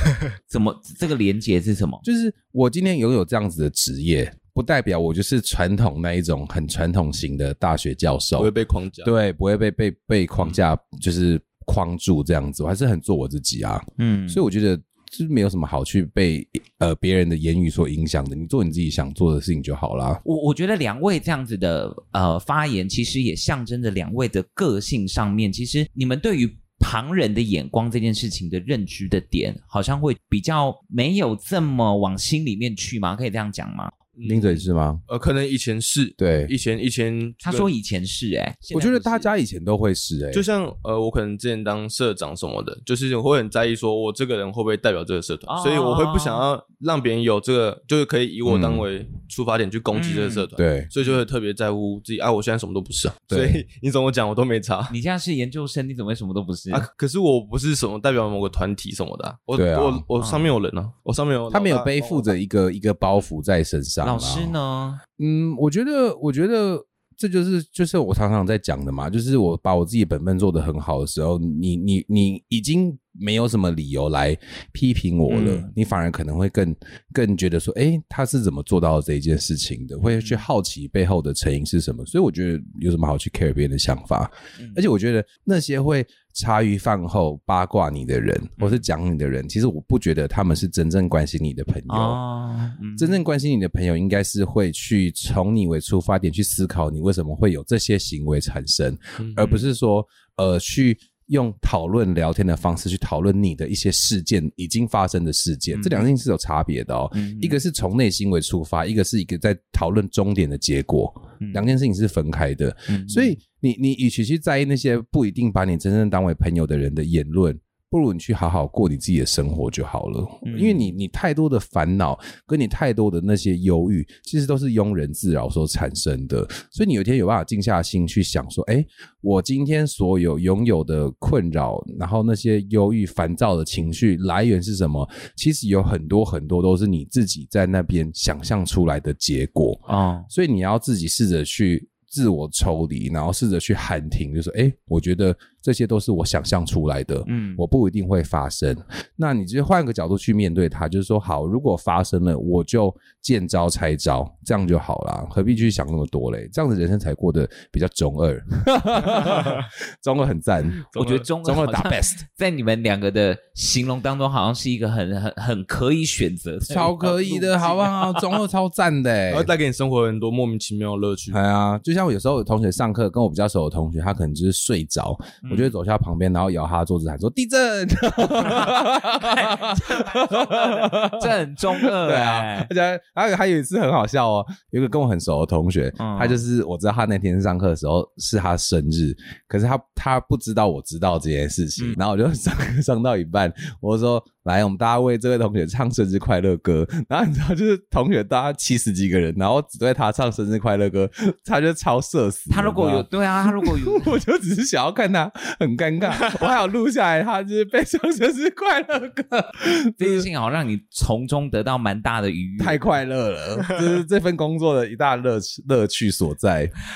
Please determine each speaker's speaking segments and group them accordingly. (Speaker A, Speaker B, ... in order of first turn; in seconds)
Speaker A: 0.5-2.0, 14.0-14.4, 20.2-34.0, 37.4-39.3, 45.5-46.4, 49.9-50.5, 54.9-56.9, 60.2-60.5, 64.0-65.0, 75.3-75.6, 80.0-80.5, 84.6-84.8, 91.9-93.2, 105.8-106.1, 107.1-107.6, 111.4-111.7, 112.9-113.4, 120.5-120.9, 139.9-140.3, 147.3-147.6, 160.9-168.1, 175.4-175.7, 179.2-182.7, 186.0-186.4, 202.5-204.2, 210.0-212.8
Speaker B: 2.0-8.5, 9.0-20.2, 34.2-35.0, 36.2-36.5, 38.7-40.5, 48.5-48.9, 50.6-50.9, 53.3-53.6, 59.5-60.0, 61.5-64.6, 65.2-92.2, 93.0-160.8, 161.4-162.2, 166.7-169.5, 171.3-210.3, 212.6-216.7
Speaker C: 8.4-9.1, 34.2-37.7, 40.3-55.0, 56.7-62.3, 99.2-99.6, 159.2-159.7, 160.9-161.3, 169.3-171.4